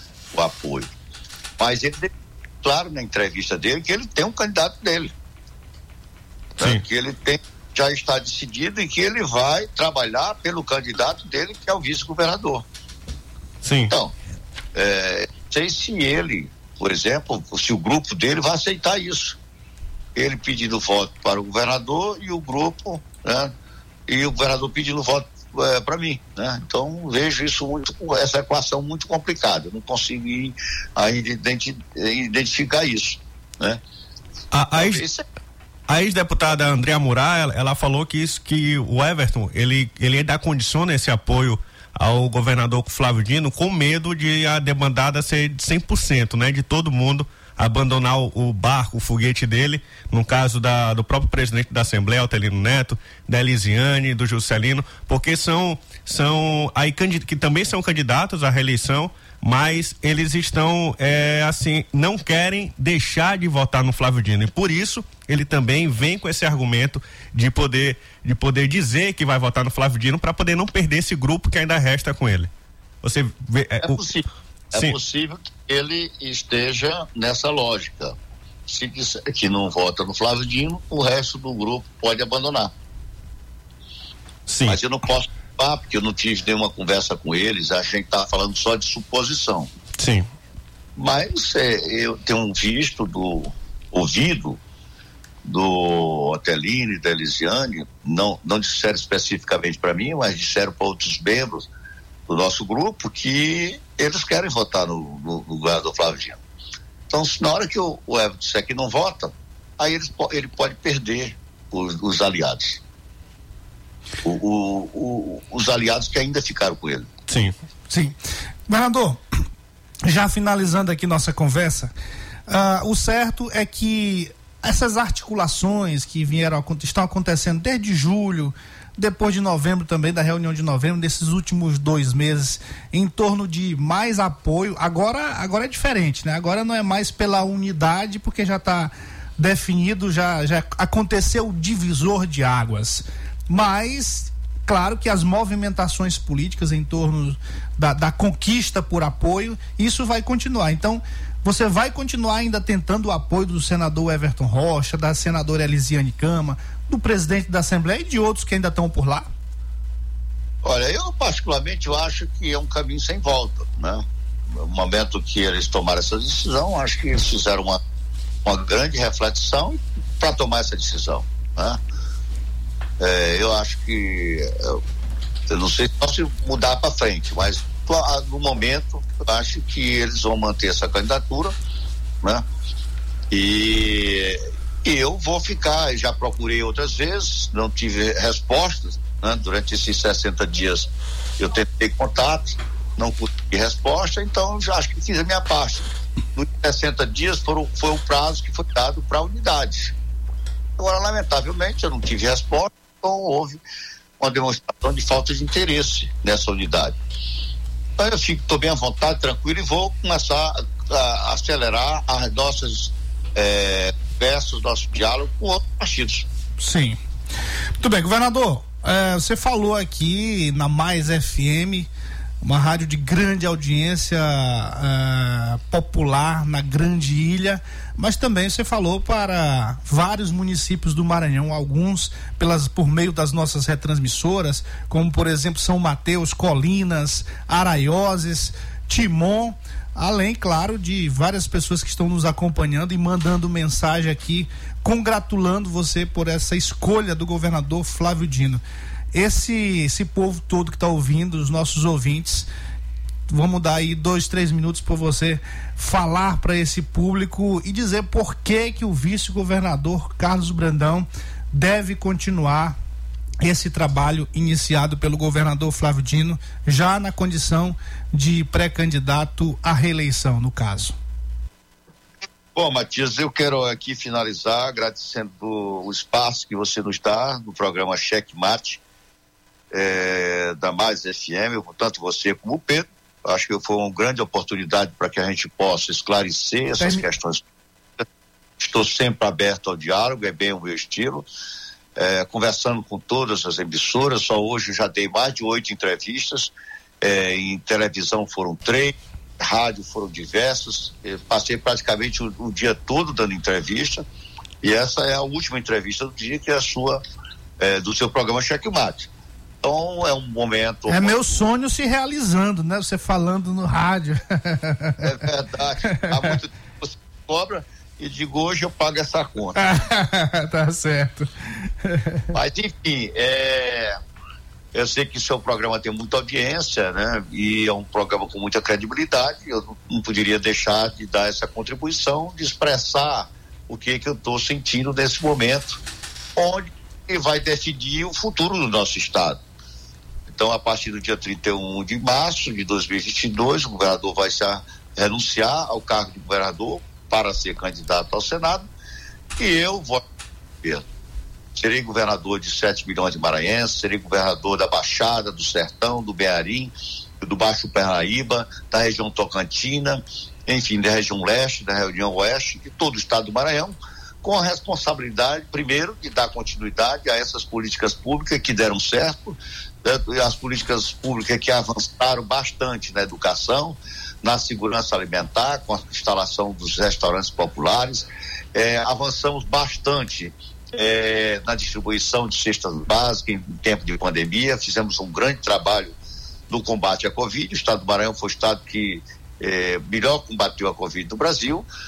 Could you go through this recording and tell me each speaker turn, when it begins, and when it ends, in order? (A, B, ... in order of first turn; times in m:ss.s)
0:00.3-0:00.9 A
0:01.6-0:02.1 A
0:02.6-0:05.1 A
0:06.6-0:12.6 A
0:13.6-0:13.9 B
0:14.7-0:19.4 A
0:20.2-0:23.5 A
0:24.1-0:33.8 A
0:34.5-0:35.0 B
0:34.7-0:35.2 A
0:35.9-1:12.5 B
1:13.0-1:14.1 B
1:13.8-1:18.1 A
1:18.7-1:22.7 A
1:24.5-1:24.8 B
1:24.7-1:29.7 A
1:30.0-1:30.2 B
1:31.0-1:34.6 A
1:35.4-1:41.7 A
1:42.3-1:46.4 A
1:47.1-1:52.8 A
1:54.2-1:57.1 A
1:57.3-1:57.5 B
1:57.9-1:58.2 C
1:58.7-1:59.2 C
2:00.0-2:01.9 C
2:02.5-2:39.3 C
2:40.6-2:47.8 A
2:48.4-2:51.8 A
2:53.0-2:54.8 A
2:55.5-3:01.5 A
3:03.3-3:19.9 A
3:20.8-3:23.6 A
3:24.2-3:27.0 A
3:28.0-3:36.2 A
3:36.6-3:37.0 C
3:37.8-3:41.9 C
3:42.4-4:12.5 C
4:13.3-4:22.8 C
4:23.4-4:31.0 C
4:32.5-4:38.8 A
4:39.7-4:47.4 A
4:46.8-4:47.0 C
4:48.6-4:51.2 A
4:52.0-5:04.0 A
5:04.6-5:07.0 A
5:07.6-5:09.1 A
5:09.6-5:11.4 A
5:10.9-5:15.2 C
5:15.0-5:19.6 A
5:15.9-5:16.4 C
5:19.5-5:22.3 C
5:22.3-5:24.0 A
5:24.7-5:35.8 A
5:36.4-5:39.4 A
5:40.3-5:48.6 A
5:49.4-5:50.0 A
5:51.5-6:26.0 A
6:26.5-6:31.6 A